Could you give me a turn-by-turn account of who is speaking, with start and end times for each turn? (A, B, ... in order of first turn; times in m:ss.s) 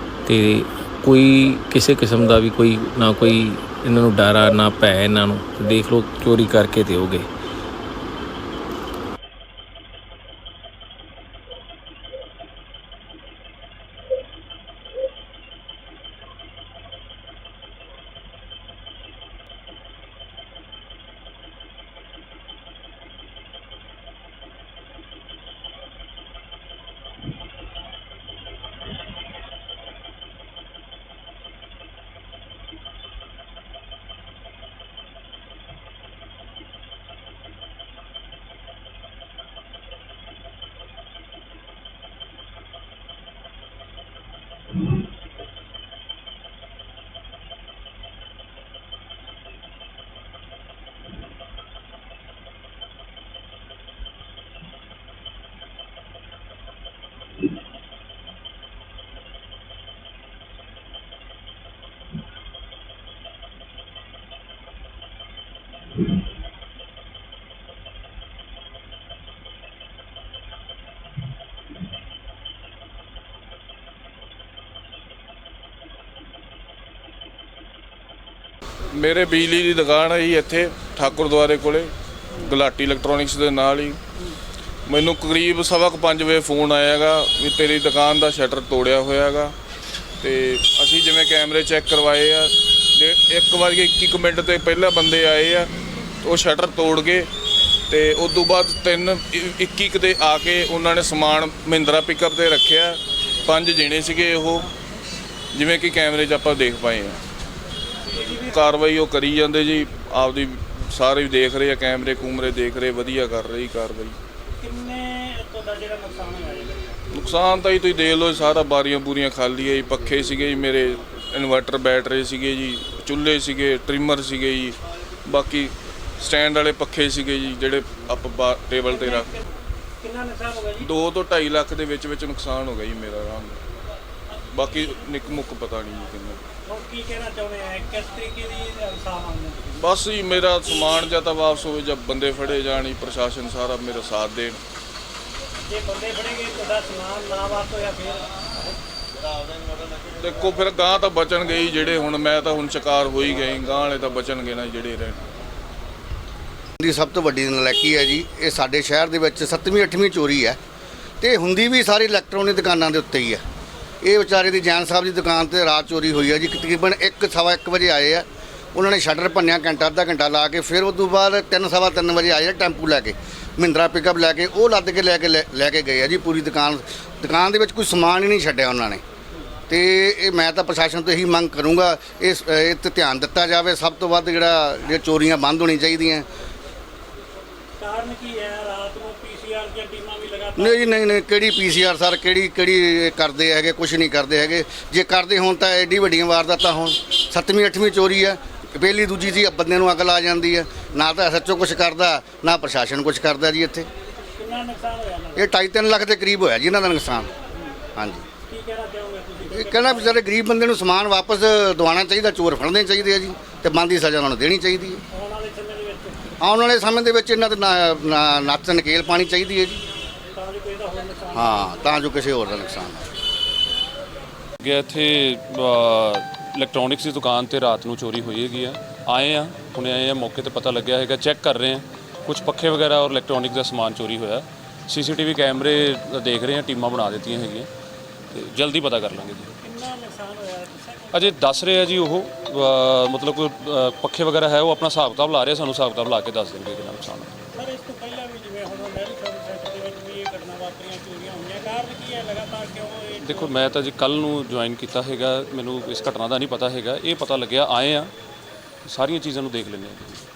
0:00.3-0:07.3 A
1:18.9-1:24.0 B
1:24.8-1:29.5 B
1:30.2-1:35.7 B
1:36.2-1:37.3 B
1:37.9-1:44.7 B
1:45.5-1:47.2 B
1:48.1-1:48.6 C
1:48.4-1:54.2 B
1:54.6-1:56.9 C
1:57.1-2:09.3 B
2:08.9-2:09.4 C
2:10.0-2:10.9 C
2:10.8-2:13.6 B
2:14.5-2:16.4 B
2:16.6-2:19.8 C
2:19.8-2:24.6 B
2:25.7-2:28.2 C
2:30.2-2:35.2 B
2:36.8-2:40.6 D
2:41.2-2:43.4 D
2:44.0-2:59.0 D
2:59.7-3:06.3 D
3:07.8-3:11.0 C
3:10.6-3:23.9 D
3:24.4-3:25.5 C
3:25.3-3:27.3 D
3:28.0-3:28.2 D
3:28.4-3:30.2 C
3:29.5-3:35.0 D
3:35.1-3:36.3 C
3:36.4-3:39.8 D
3:40.3-3:41.8 C
3:41.3-3:43.0 D
3:44.6-3:57.7 E
3:58.3-3:59.5 E
3:59.6-4:01.4 C
4:01.1-4:07.3 E
4:07.5-4:13.5 C
4:13.2-4:18.1 E
4:18.8-4:20.2 E